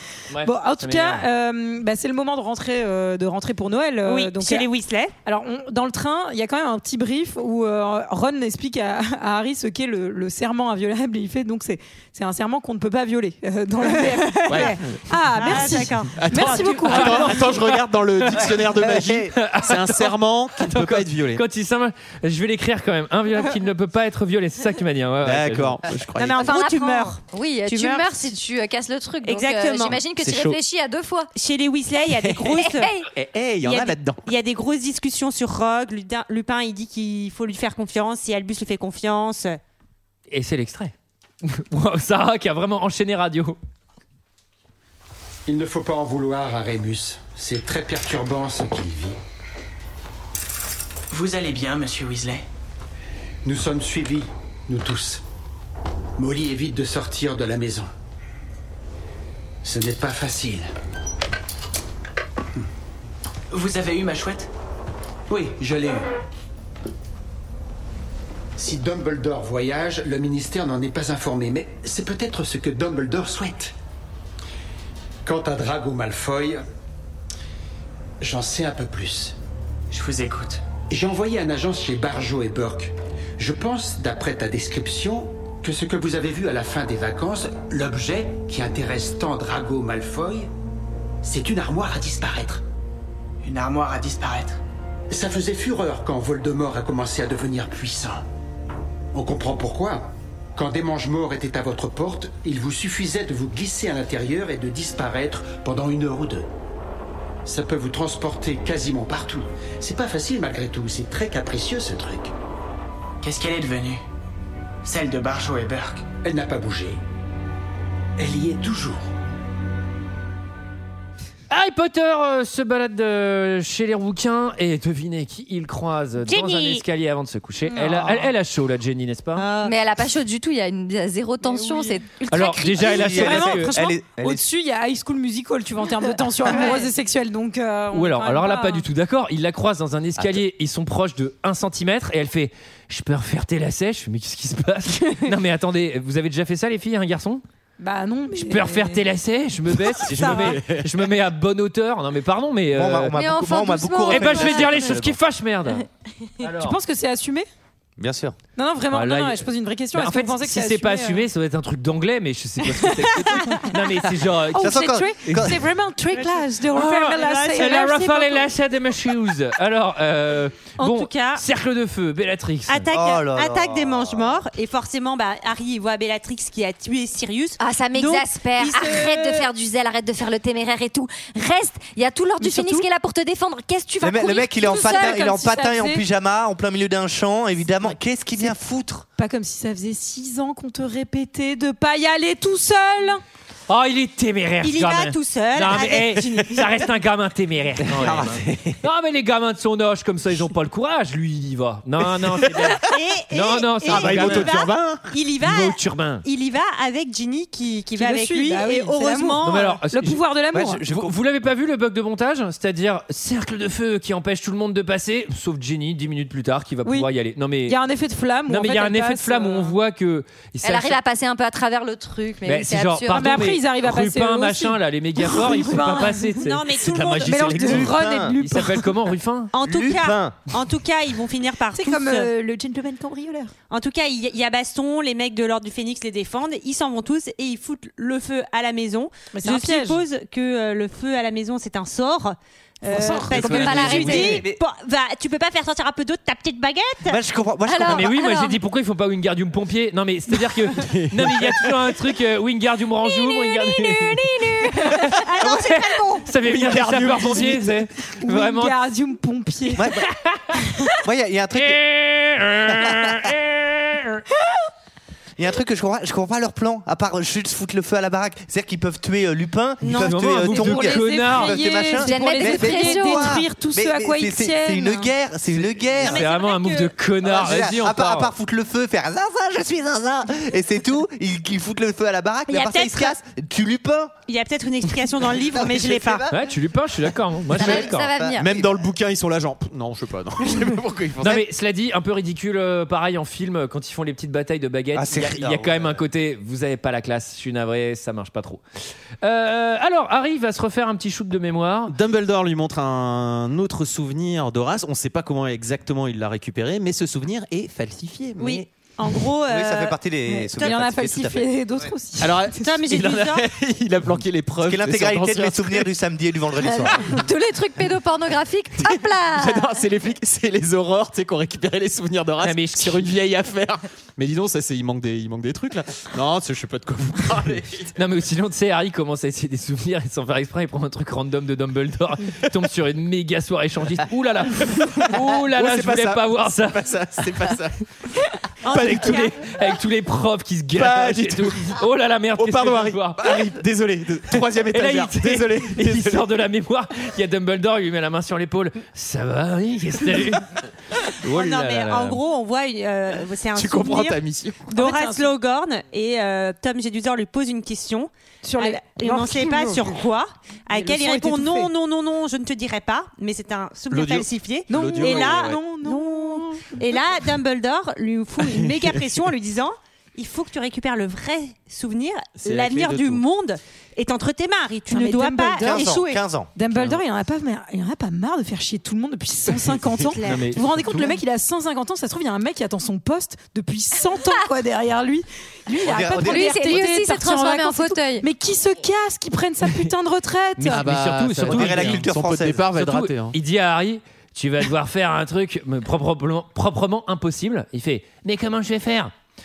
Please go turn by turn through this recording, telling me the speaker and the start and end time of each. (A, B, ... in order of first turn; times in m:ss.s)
0:00.3-0:01.3 A
0:00.4-0:04.7 B
0:04.0-0:05.1 C
0:05.2-0:17.6 B
0:14.0-0:14.7 C
0:14.5-0:15.0 D
0:15.4-0:16.8 C
0:16.1-0:21.4 D
0:16.8-0:25.8 A
0:18.5-0:19.3 E
0:25.2-0:26.4 D
0:26.1-0:28.3 C
0:26.4-0:31.3 F
0:29.2-0:30.0 C
0:30.2-0:30.6 D
0:31.3-0:32.9 C
0:32.0-0:33.0 F
0:33.1-0:34.2 D
0:33.6-0:39.6 C
0:40.3-0:40.9 A
0:41.4-0:43.6 A
0:45.5-0:49.2 G
0:51.1-0:52.4 H
0:53.4-0:55.2 G
0:56.2-0:57.9 G
0:59.6-1:00.7 G
1:03.5-1:04.5 H
1:05.3-1:06.0 G
1:08.6-1:13.7 G
1:15.2-1:16.6 G
1:18.2-1:19.3 G
1:19.9-1:20.6 H
1:20.9-1:30.5 G
1:31.2-1:32.6 G
1:33.4-1:34.6 H
1:35.1-1:38.2 G
1:39.1-1:46.5 G
1:47.4-1:52.3 G
1:53.2-1:54.0 H
1:54.8-1:56.0 H
1:56.2-1:57.0 G
1:58.2-1:59.1 G
2:01.5-2:09.4 A
2:06.2-2:06.8 C
2:07.7-2:08.3 B
2:09.4-2:09.7 C
2:09.6-2:13.0 F
2:11.5-2:11.8 B
2:12.3-2:13.7 A
2:12.7-2:14.4 E
2:12.8-2:18.9 B
2:17.9-2:27.4 A
2:27.8-2:29.0 B
2:28.3-2:33.2 A
2:30.0-2:30.9 D
2:30.1-2:30.6 B
2:32.7-2:35.1 E
2:33.1-2:34.9 F
2:34.1-2:35.8 A
2:36.4-2:36.8 A
2:36.4-2:37.5 B
2:38.0-2:38.4 E
2:38.6-2:41.2 B
2:38.9-2:45.4 A
2:43.4-2:43.8 B
2:44.5-2:48.3 B
2:44.6-2:45.7 E
2:46.7-2:52.9 A
2:47.0-2:48.3 C
2:50.8-2:51.4 C
2:52.7-2:59.5 C
2:52.9-2:54.4 E
2:57.6-3:05.3 F
3:02.5-3:02.8 C
3:04.0-3:09.0 E
3:04.6-3:06.0 B
3:09.2-3:13.2 B
3:13.7-3:24.5 A
3:14.6-3:16.8 C
3:17.9-3:18.8 D
3:22.4-3:22.8 D
3:22.9-3:29.8 C
3:23.9-3:25.1 D
3:25.4-3:26.2 A
3:28.0-3:30.8 B
3:29.4-3:30.2 A
3:30.5-3:31.1 E
3:30.8-3:37.8 A
3:37.6-3:39.8 B
3:38.5-3:41.0 A
3:40.6-3:43.4 F
3:42.4-3:47.9 A
3:43.1-3:46.3 B
3:46.4-3:47.6 C
3:47.2-3:48.9 B
3:47.5-3:48.4 E
3:48.4-3:49.5 A
3:49.5-3:52.3 C
3:49.6-3:50.4 E
3:51.7-3:53.5 B
3:53.7-4:07.2 C
3:59.3-4:00.0 B
4:02.8-4:03.8 B
4:03.3-4:04.4 D
4:03.3-4:04.5 F
4:04.1-4:04.6 E
4:07.1-4:08.1 E
4:07.6-4:08.6 F
4:07.8-4:14.2 A
4:10.6-4:11.8 D
4:13.0-4:15.1 F
4:15.2-4:16.3 C
4:15.7-4:18.8 A
4:16.4-4:17.8 D
4:18.2-4:19.9 B
4:19.7-4:20.0 E
4:20.1-4:20.6 A
4:21.0-4:21.8 E
4:21.5-4:24.2 A
4:25.4-4:36.2 E
4:29.8-4:30.2 C
4:30.0-4:31.6 A
4:30.5-4:35.1 B
4:32.0-4:33.4 F
4:36.0-4:36.9 C
4:36.0-4:38.3 A
4:37.2-4:44.1 E
4:42.5-4:43.2 C
4:44.3-4:46.3 C
4:45.3-4:46.5 E
4:46.3-4:48.1 A
4:47.5-4:48.8 E
4:47.5-4:48.5 F
4:48.3-4:51.4 D
4:51.2-4:58.6 A
4:54.9-4:56.0 E
4:59.2-5:02.0 A
5:01.9-5:08.7 D
5:08.4-5:10.0 C
5:09.5-5:11.9 E
5:10.3-5:12.8 B
5:12.2-5:15.9 D
5:12.6-5:13.5 C
5:14.6-5:17.0 E
5:16.6-5:19.7 F
5:18.8-5:28.0 D
5:22.4-5:23.1 A
5:28.0-5:36.9 A
5:34.6-5:37.8 D
5:38.6-5:39.4 C
5:38.6-5:43.4 A
5:38.7-5:39.1 D
5:40.7-5:41.8 D
5:42.4-5:46.2 D
5:44.3-5:52.2 A
5:51.3-6:16.2 C
5:53.5-5:54.7 D
5:54.7-5:55.3 B
5:58.4-6:00.0 B
6:00.7-6:01.7 B
6:03.9-6:05.6 D
6:04.7-6:07.0 B
6:08.4-6:08.8 D
6:12.4-6:13.2 D
6:14.9-6:30.8 B
6:15.6-6:16.5 E
6:20.2-6:21.2 A
6:25.8-6:26.8 E
6:26.2-6:28.3 F
6:30.6-6:32.0 A
6:30.7-6:33.3 D
6:31.4-6:32.6 E
6:32.7-6:39.1 A